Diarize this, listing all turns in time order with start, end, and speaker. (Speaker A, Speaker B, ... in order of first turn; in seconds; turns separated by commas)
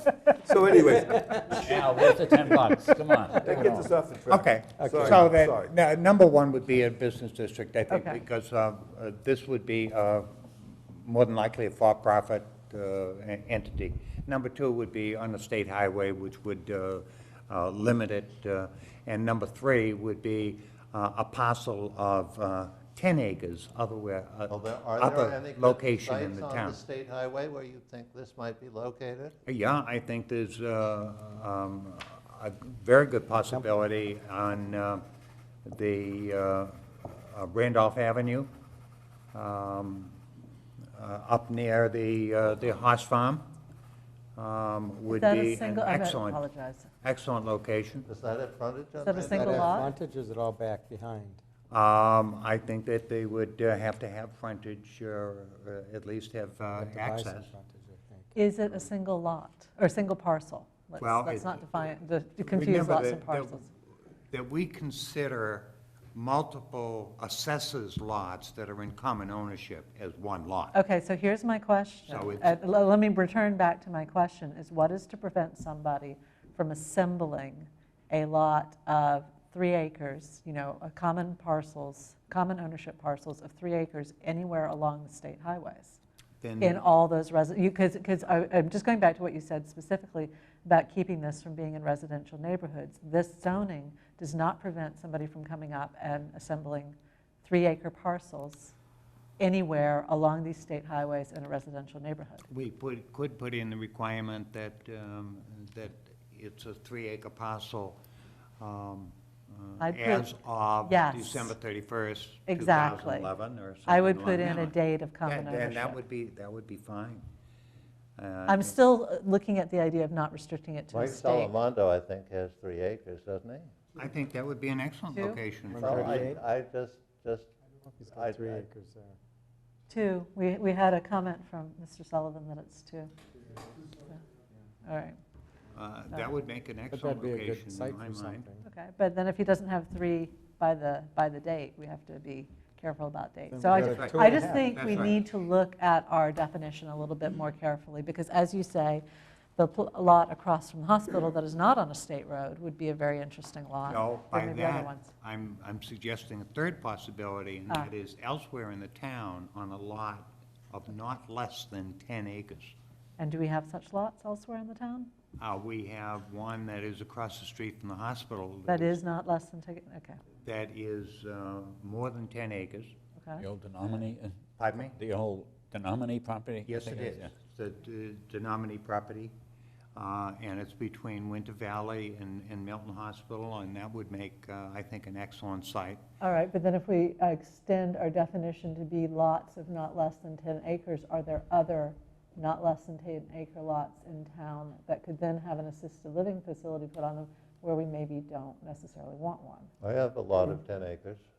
Speaker A: 0.4-2.1, Speaker B: 1.6-3.9, Speaker A: 3.4-5.8, Speaker C: 4.3-26.8, Speaker D: 4.8-5.3, Speaker E: 7.9-8.2, Speaker F: 24.5-29.4, Speaker C: 29.5-35.0, Speaker C: 35.7-38.5, Speaker C: 39.3-40.2, Speaker C: 41.0-43.5, Speaker C: 44.4-46.4, Speaker E: 45.1-46.9, Speaker C: 47.0-48.1, Speaker F: 48.1-49.9, Speaker E: 49.0-49.9, Speaker D: 49.2-51.4, Speaker C: 51.7-57.5, Speaker D: 56.8-58.4, Speaker E: 58.3-63.7, Speaker C: 61.0-61.8, Speaker C: 62.5-63.6, Speaker C: 64.3-70.7, Speaker E: 70.7-86.0, Speaker C: 72.1-72.5, Speaker C: 86.4-86.8, Speaker E: 86.6-98.8, Speaker E: 99.4-102.5, Speaker C: 102.5-108.0, Speaker C: 108.6-117.2, Speaker E: 109.8-110.3, Speaker E: 110.8-111.5, Speaker E: 112.5-113.3, Speaker E: 113.9-116.0, Speaker C: 118.2-118.7, Speaker E: 118.5-121.5, Speaker F: 120.9-123.7, Speaker C: 124.0-126.3, Speaker E: 125.1-125.4, Speaker D: 125.7-126.4, Speaker F: 125.7-127.5, Speaker D: 127.9-129.2, Speaker F: 128.1-128.7, Speaker E: 129.9-133.1, Speaker E: 134.8-135.2, Speaker C: 135.8-138.5, Speaker D: 136.9-138.6, Speaker E: 138.6-149.1, Speaker D: 143.5-144.8, Speaker C: 143.7-145.2, Speaker E: 149.6-155.1, Speaker C: 153.9-162.7, Speaker E: 163.2-165.1, Speaker C: 165.4-169.0, Speaker E: 168.7-170.2, Speaker C: 170.4-172.9, Speaker E: 173.2-173.4, Speaker B: 173.4-177.3, Speaker C: 174.6-174.9, Speaker C: 176.7-179.3, Speaker C: 180.0-186.0, Speaker E: 186.2-199.7, Speaker F: 199.8-201.2